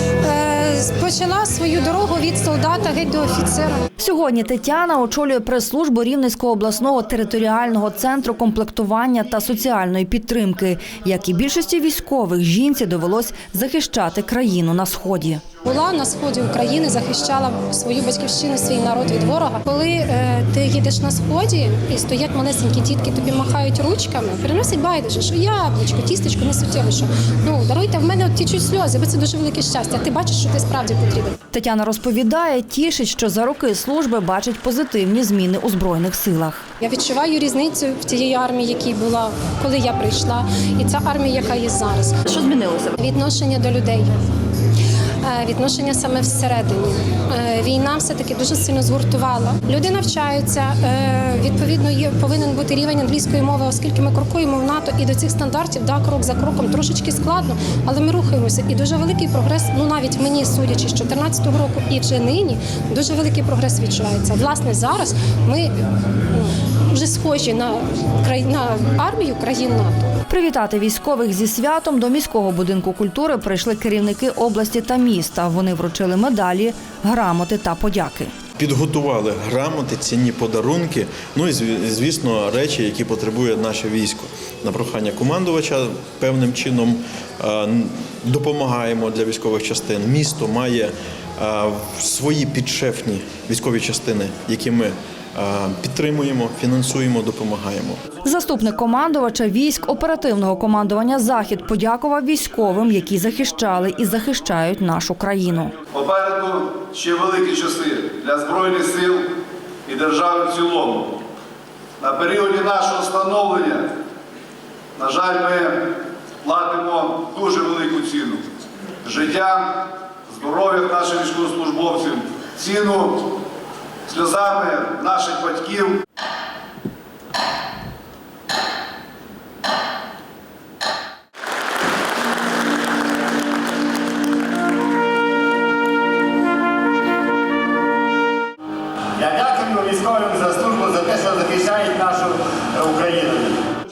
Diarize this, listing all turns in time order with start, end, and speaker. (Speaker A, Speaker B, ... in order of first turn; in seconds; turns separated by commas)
Speaker A: 0.2-3.8, Speaker B: 4.0-15.4, Speaker A: 15.6-31.4, Speaker B: 31.5-36.6, Speaker A: 36.8-42.2, Speaker B: 42.3-43.0, Speaker A: 43.0-44.1, Speaker A: 45.2-65.7, Speaker A: 66.3-70.1, Speaker B: 70.3-78.3, Speaker C: 78.6-98.1, Speaker B: 98.2-105.7, Speaker D: 105.9-109.3, Speaker D: 109.8-111.2, Speaker D: 112.0-113.9, Speaker D: 115.0-115.9, Speaker D: 116.4-118.4, Speaker D: 119.0-123.3, Speaker D: 124.0-126.0, Speaker E: 139.2-143.6